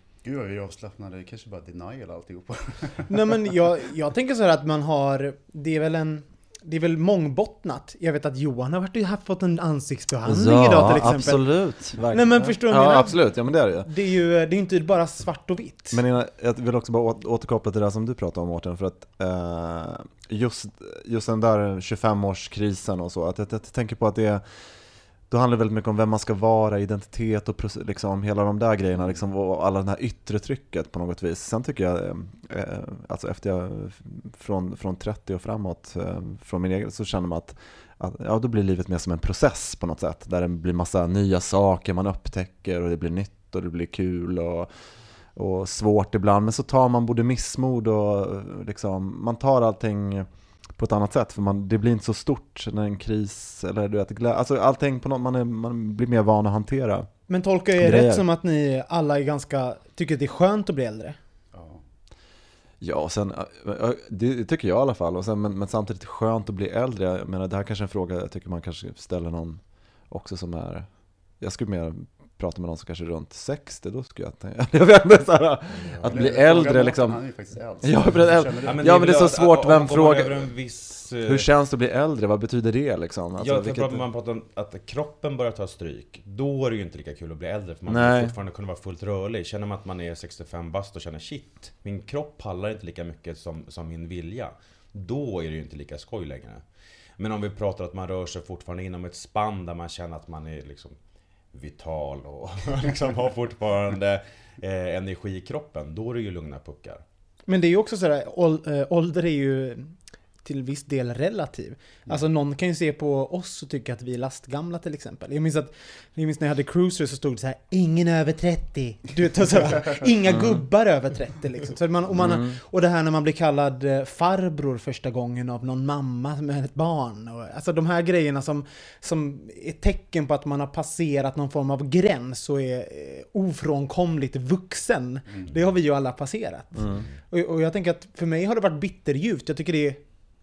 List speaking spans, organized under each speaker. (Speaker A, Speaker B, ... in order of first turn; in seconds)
Speaker A: 0.2-3.1, 61.5-61.8, 76.0-79.0
Speaker B: 3.1-16.0, 57.3-61.2, 107.5-140.0
Speaker C: 10.2-13.9, 15.9-24.7, 25.3-44.7, 45.4-57.1, 57.8-58.3, 62.8-77.2, 77.8-80.5, 81.2-84.0, 87.9-88.3, 120.3-120.6, 122.1-122.6, 136.8-137.1
Speaker D: 75.8-76.2, 78.6-81.5, 83.4-96.6, 97.2-101.0, 101.5-107.0